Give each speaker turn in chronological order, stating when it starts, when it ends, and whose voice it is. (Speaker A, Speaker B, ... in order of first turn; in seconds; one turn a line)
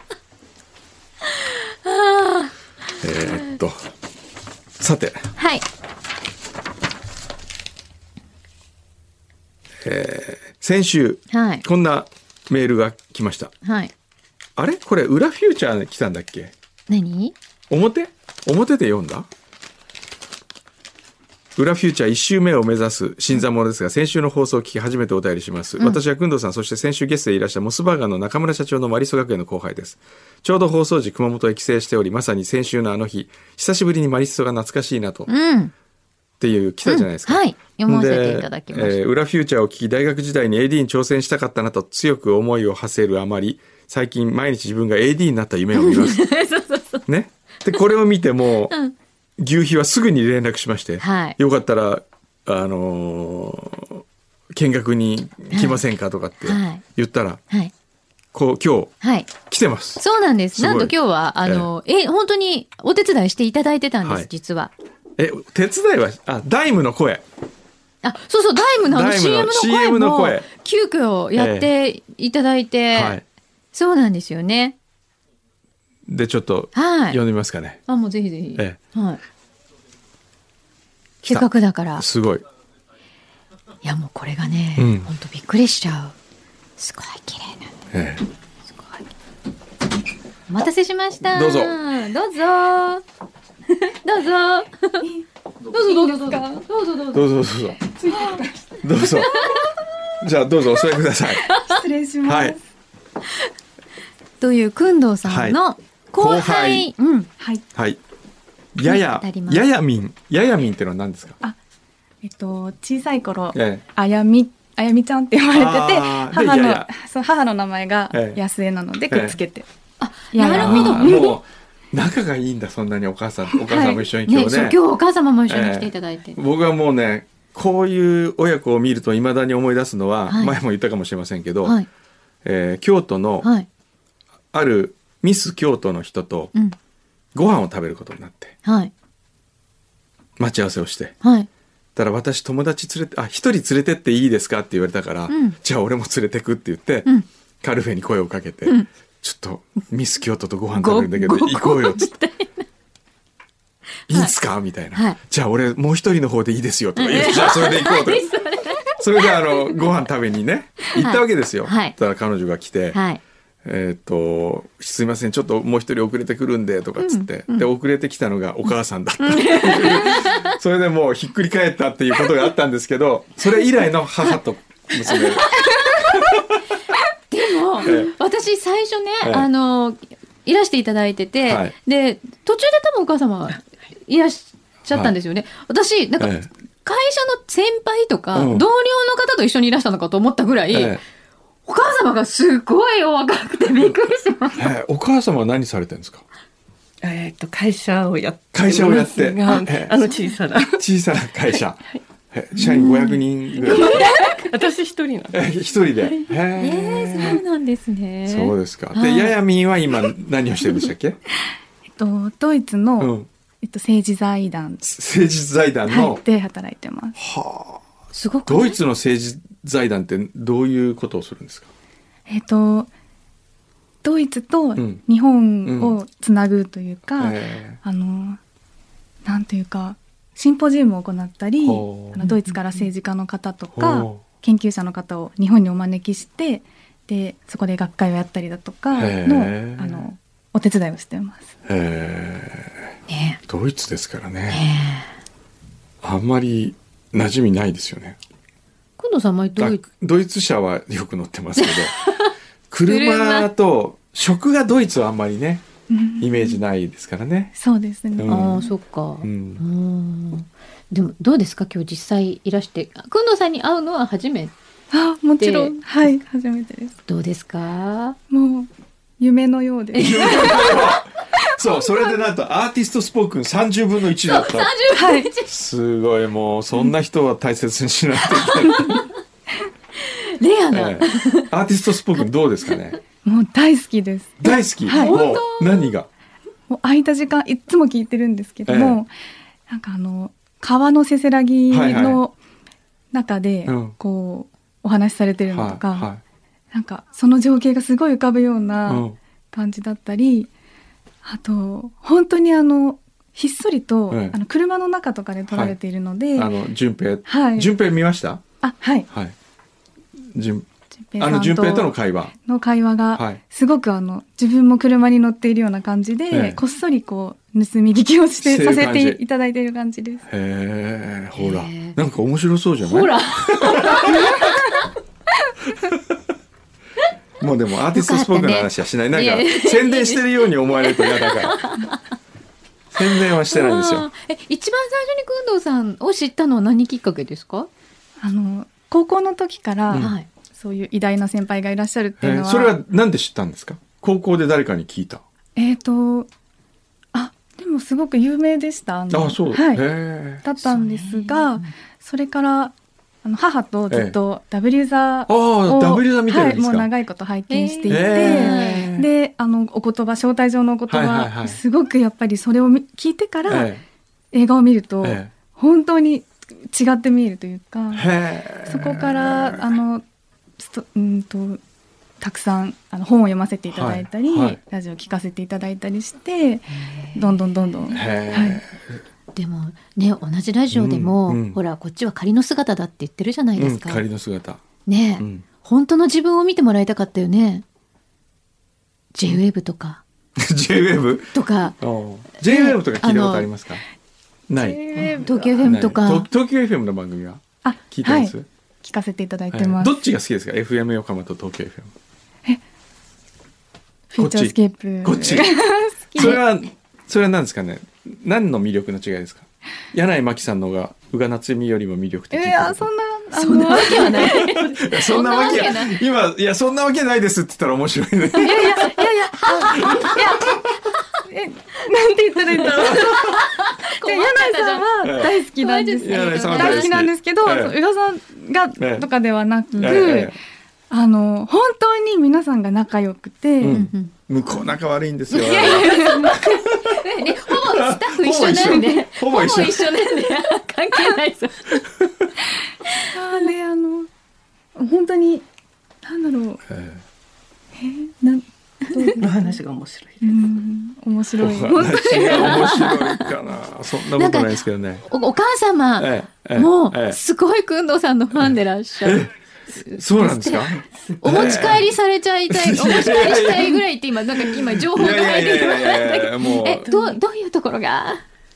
Speaker A: 1.3-2.5
Speaker B: 3.0-3.9
Speaker B: 4.8-5.3
Speaker A: 5.3-5.6
Speaker B: 9.8-13.5
Speaker A: 11.3-11.6
Speaker A: 13.6-13.9
Speaker B: 14.6-16.5
Speaker A: 16.9-17.4
Speaker B: 17.7-19.3
Speaker B: 21.6-35.3
Speaker A: 35.3-35.7
Speaker B: 36.4-46.2
Speaker A: 36.9-39.0
Speaker A: 45.7-47.0
Speaker B: 47.0-48.7
Speaker A: 48.7-48.9
Speaker B: 49.4-57.4
Speaker A: 51.0-51.4
Speaker A: 55.5-55.8
Speaker A: 56.4-56.8
Speaker B: 58.3-60.0
Speaker A: 59.0-59.3
Speaker A: 60.0-64.7
Speaker B: 60.5-61.7
Speaker B: 64.0-64.3
Speaker B: 65.2-67.2
Speaker A: 68.0-73.2
Speaker B: 68.8-70.5
Speaker B: 71.3-71.7
Speaker B: 72.9-73.2
Speaker A: 73.7-74.8
Speaker B: 76.1-77.8
Speaker A: 76.7-77.2
Speaker A: 77.9-79.2
Speaker B: 81.2-82.4
Speaker A: 81.2-82.0
Speaker A: 83.8-86.1
Speaker B: 84.8-85.1
Speaker A: 86.8-87.7
Speaker B: 87.9-88.2
Speaker A: 88.7-89.0
Speaker A: 90.5-93.0
Speaker B: 91.3-91.7
Speaker A: 93.7-95.1
Speaker C: 95.0-96.6
Speaker A: 95.7-97.2
Speaker B: 97.1-97.8
Speaker C: 97.9-98.8
Speaker A: 98.1-98.4
Speaker B: 98.8-99.4
Speaker A: 99.0-99.7
Speaker B: 100.2-101.5
Speaker A: 101.5-101.8
Speaker C: 101.5-102.6
Speaker B: 102.2-102.5
Speaker A: 104.4-107.3
Speaker B: 105.2-105.6
Speaker B: 106.1-106.9
Speaker C: 107.4-107.6
Speaker B: 108.7-111.4
Speaker A: 108.8-109.6
Speaker C: 112.2-119.7
Speaker B: 113.5-113.8
Speaker B: 115.5-116.9
Speaker B: 118.1-118.4
Speaker B: 119.1-119.4
Speaker A: 120.0-121.3
Speaker C: 120.3-121.3
Speaker B: 120.5-124.8
Speaker C: 123.7-124.0
Speaker A: 124.2-126.4
Speaker B: 125.5-131.8
Speaker A: 130.3-130.6
Speaker B: 132.4-133.5
Speaker A: 133.4-133.7
Speaker B: 134.5-136.5
Speaker B: 137.3-138.6
Speaker A: 138.6-138.9
Speaker B: 140.4-141.2
Speaker A: 141.2-141.5
Speaker B: 141.9-147.1
Speaker A: 145.3-145.6
Speaker B: 147.6-152.1
Speaker A: 150.8-152.6
Speaker B: 154.1-158.3
Speaker A: 154.9-155.2
Speaker A: 156.9-159.8
Speaker B: 158.9-163.0
Speaker A: 160.9-161.9
Speaker A: 162.9-163.2
Speaker B: 163.6-176.6
Speaker A: 167.0-167.7
Speaker A: 169.2-170.6
Speaker A: 175.0-176.4
Speaker A: 177.3-191.0
Speaker B: 177.8-178.1
Speaker B: 179.2-179.5
Speaker B: 181.4-181.7
Speaker B: 186.2-186.5
Speaker B: 188.3-188.7
Speaker B: 190.7-191.0
Speaker A: 191.7-194.7
Speaker B: 194.6-196.2
Speaker D: 197.0-200.8
Speaker B: 198.5-200.1
Speaker B: 200.8-204.0
Speaker D: 201.5-202.0
Speaker D: 202.6-203.0
Speaker A: 202.6-204.5
Speaker D: 203.6-205.4
Speaker B: 205.3-207.4
Speaker A: 206.6-209.3
Speaker B: 208.2-211.2
Speaker C: 212.0-214.8
Speaker B: 213.0-213.3
Speaker B: 214.8-216.2
Speaker C: 215.9-217.2
Speaker B: 217.2-217.8
Speaker A: 218.1-218.8
Speaker B: 218.4-221.7
Speaker C: 222.3-222.9
Speaker C: 224.0-228.4
Speaker B: 225.6-225.9
Speaker B: 227.2-227.8
Speaker C: 229.2-241.5
Speaker B: 231.6-232.2
Speaker B: 233.8-234.2
Speaker B: 238.9-240.0
Speaker B: 241.7-242.9
Speaker A: 243.1-243.4
Speaker B: 243.5-244.6
Speaker A: 244.5-245.1
Speaker B: 246.0-248.2
Speaker A: 249.0-249.8
Speaker B: 249.6-251.9
Speaker A: 251.6-252.3
Speaker B: 252.7-255.7
Speaker A: 252.9-253.5
Speaker C: 255.9-256.6
Speaker B: 256.2-257.5
Speaker C: 257.6-258.6
Speaker B: 258.1-258.7
Speaker A: 258.3-264.5
Speaker B: 259.2-259.6
Speaker C: 264.9-266.9
Speaker A: 265.4-265.7
Speaker A: 267.1-268.2
Speaker C: 268.3-268.7
Speaker C: 269.2-270.6
Speaker A: 269.9-271.0
Speaker B: 269.9-274.7
Speaker A: 274.2-275.5
Speaker C: 274.9-275.3
Speaker B: 275.4-279.0
Speaker A: 278.4-279.1
Speaker A: 280.0-281.5
Speaker B: 280.7-283.0
Speaker C: 283.2-285.2
Speaker B: 284.4-286.1
Speaker A: 284.9-285.9
Speaker C: 286.7-289.1
Speaker B: 288.7-289.0
Speaker C: 289.7-292.3
Speaker B: 291.7-292.2
Speaker C: 293.1-296.1
Speaker B: 293.6-293.9
Speaker B: 295.5-296.2
Speaker C: 296.7-300.5
Speaker B: 298.9-299.2
Speaker C: 301.2-306.5
Speaker B: 304.1-304.4
Speaker B: 305.5-305.8
Speaker B: 306.3-308.4
Speaker C: 307.2-307.7
Speaker C: 308.6-309.1
Speaker B: 309.1-309.3
Speaker B: 310.3-310.6
Speaker C: 311.1-320.2
Speaker B: 311.2-312.3
Speaker B: 313.1-313.4
Speaker B: 316.3-316.6
Speaker B: 318.4-319.2
Speaker B: 320.3-324.5
Speaker A: 321.4-322.0
Speaker A: 322.8-324.9
Speaker B: 327.4-331.8
Speaker A: 327.9-332.0
Speaker B: 332.9-334.1
Speaker A: 333.4-337.7
Speaker C: 338.2-342.8
Speaker A: 339.9-340.3
Speaker B: 342.2-345.2
Speaker C: 345.6-346.3
Speaker C: 347.1-349.9
Speaker B: 349.1-350.4
Speaker C: 350.4-363.7
Speaker A: 350.6-351.7
Speaker B: 353.9-354.1
Speaker B: 355.3-356.9
Speaker A: 357.5-358.9
Speaker B: 357.9-359.1
Speaker B: 360.9-361.6
Speaker B: 363.5-363.8
Speaker C: 364.3-368.1
Speaker B: 365.0-365.3
Speaker B: 367.9-369.6
Speaker C: 368.6-370.0
Speaker C: 370.6-371.6
Speaker C: 372.2-378.6
Speaker B: 373.7-374.6
Speaker A: 376.8-377.2
Speaker B: 377.9-379.0
Speaker A: 379.3-384.0
Speaker B: 380.7-381.6
Speaker B: 383.6-384.6
Speaker A: 384.9-387.6
Speaker B: 385.2-385.4
Speaker A: 389.1-390.0
Speaker B: 390.4-393.8
Speaker A: 391.3-391.8
Speaker A: 392.4-393.5
Speaker B: 394.5-394.9
Speaker C: 394.6-395.7
Speaker A: 394.9-396.3
Speaker D: 395.0-395.3
Speaker B: 395.6-398.4
Speaker C: 397.6-399.9
Speaker B: 399.5-401.9
Speaker C: 404.1-406.4
Speaker B: 404.2-405.6
Speaker B: 406.1-412.9
Speaker C: 412.3-414.6
Speaker A: 413.3-416.0
Speaker B: 413.9-418.8
Speaker A: 418.4-420.2
Speaker C: 418.4-420.6
Speaker B: 419.8-420.7
Speaker C: 421.2-430.3
Speaker A: 422.5-426.9
Speaker B: 422.7-423.1
Speaker B: 425.0-425.3
Speaker B: 426.0-427.7
Speaker B: 428.8-429.1
Speaker A: 429.7-430.0
Speaker B: 429.8-430.3
Speaker C: 430.9-433.9
Speaker B: 433.6-439.9
Speaker A: 433.7-434.1
Speaker A: 435.3-441.8
Speaker C: 435.4-436.4
Speaker B: 442.0-442.3
Speaker C: 443.1-444.1
Speaker C: 444.8-445.4
Speaker C: 446.0-446.6
Speaker B: 446.7-447.0
Speaker C: 447.8-449.6
Speaker D: 449.2-450.3
Speaker C: 450.2-452.6
Speaker B: 451.4-455.1
Speaker A: 451.7-453.3
Speaker A: 454.1-459.2
Speaker B: 456.0-457.2
Speaker B: 458.4-459.3
Speaker A: 459.8-460.7
Speaker B: 459.9-461.9
Speaker D: 460.5-461.8
Speaker A: 461.2-468.2
Speaker B: 462.5-463.8
Speaker B: 464.4-466.9
Speaker D: 466.8-467.1